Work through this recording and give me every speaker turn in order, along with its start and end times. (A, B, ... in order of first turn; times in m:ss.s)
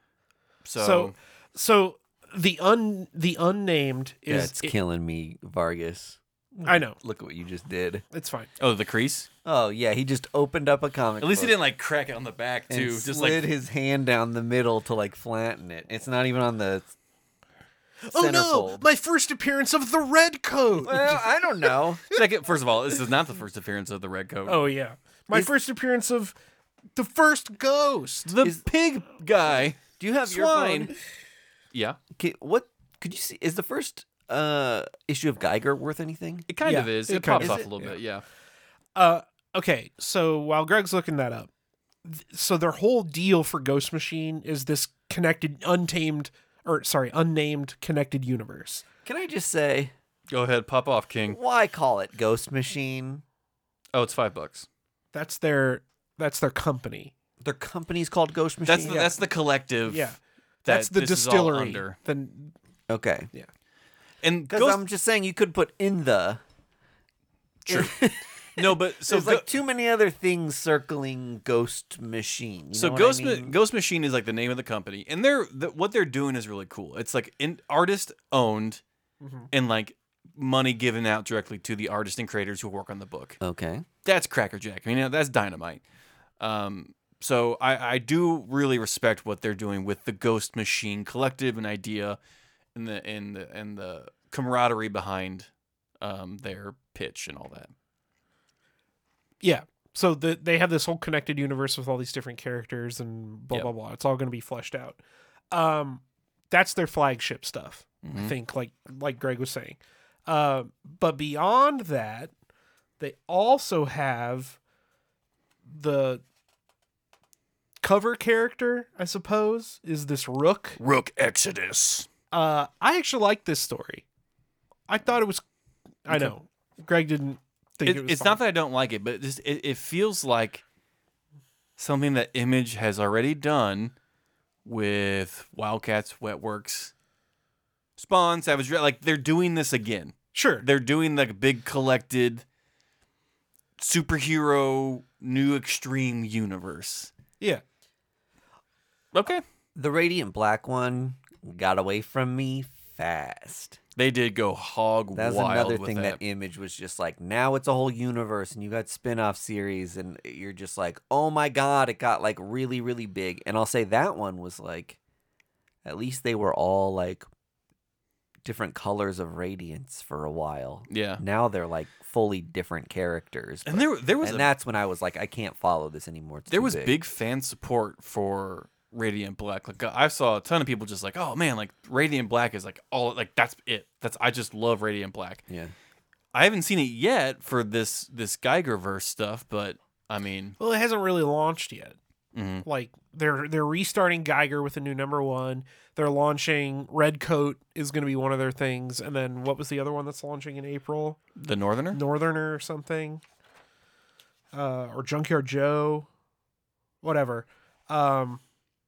0:00.6-0:01.1 A
0:00.8-0:04.8 B
0:04.3-0:08.0 C
0:06.6-0:07.0 B
0:08.1-0:08.5 B
0:08.6-0:09.3 A
0:09.4-0:11.5 C
0:11.2-0:13.5 A
0:12.7-0:16.9 C
0:18.0-0:21.3 B
0:18.1-0:18.8 C
0:20.8-0:22.0 C
0:22.1-0:24.6 A
0:24.5-0:26.4 B
0:27.0-0:28.3 B
0:28.3-0:30.9 A
0:29.9-0:30.9 C
0:31.7-0:32.0 A
0:32.2-0:36.5 C
0:36.5-0:38.2 A
0:36.6-0:38.0 B
0:37.4-0:37.7 C
0:39.0-0:41.5 B
0:42.0-0:48.8 B
0:49.0-0:49.9 C
0:50.3-0:51.4 A
0:51.3-0:53.2 C
0:53.9-0:54.7 A
0:55.1-0:57.1 B
0:57.4-0:59.1 C
0:58.7-1:00.1 A
0:58.9-0:59.1 B
0:59.9-1:02.5 B
1:00.7-1:02.0 A
1:02.9-1:03.3 C
1:04.2-1:04.8 A
1:04.5-1:06.4 C
1:07.7-1:08.0 A
1:07.7-1:13.5 C
1:08.5-1:09.5 A
1:12.7-1:18.8 A
1:19.2-1:19.5 B
1:19.5-1:23.4 A
1:23.4-1:23.9 C
1:24.0-1:25.8 A
1:26.4-1:32.2 A
1:32.8-1:35.5 A
1:36.0-1:37.7 A
1:39.4-1:45.0 B
1:45.5-1:52.3 B
1:48.0-1:48.3 A
1:53.0-1:54.6 B
1:55.7-1:56.2 B
1:57.8-2:00.8 B
2:00.8-2:02.1 A
2:02.3-2:04.0 B
2:04.9-2:05.4 B
2:06.0-2:08.4 B
2:06.1-2:06.3 A
2:07.8-2:10.6 A
2:11.8-2:13.9 A
2:14.6-2:16.9 A
2:18.0-2:22.4 A
2:20.3-2:20.6 B
2:23.8-2:27.1 A
2:29.1-2:29.4 A
2:29.8-2:33.8 C
2:34.0-2:36.2 A
2:35.1-2:45.0 C
2:45.8-2:47.2 C
2:48.4-2:57.0 C
2:50.9-2:51.2 A
2:53.7-2:54.5 A
2:56.5-3:05.4 A
3:05.5-3:05.7 C
3:06.3-3:10.6 A
3:10.6-3:12.0 B
3:12.3-3:12.6 A
3:12.6-3:21.2 B
3:21.4-3:22.0 A
3:21.9-3:23.2 B
3:24.5-3:26.1 B
3:27.0-3:28.4 B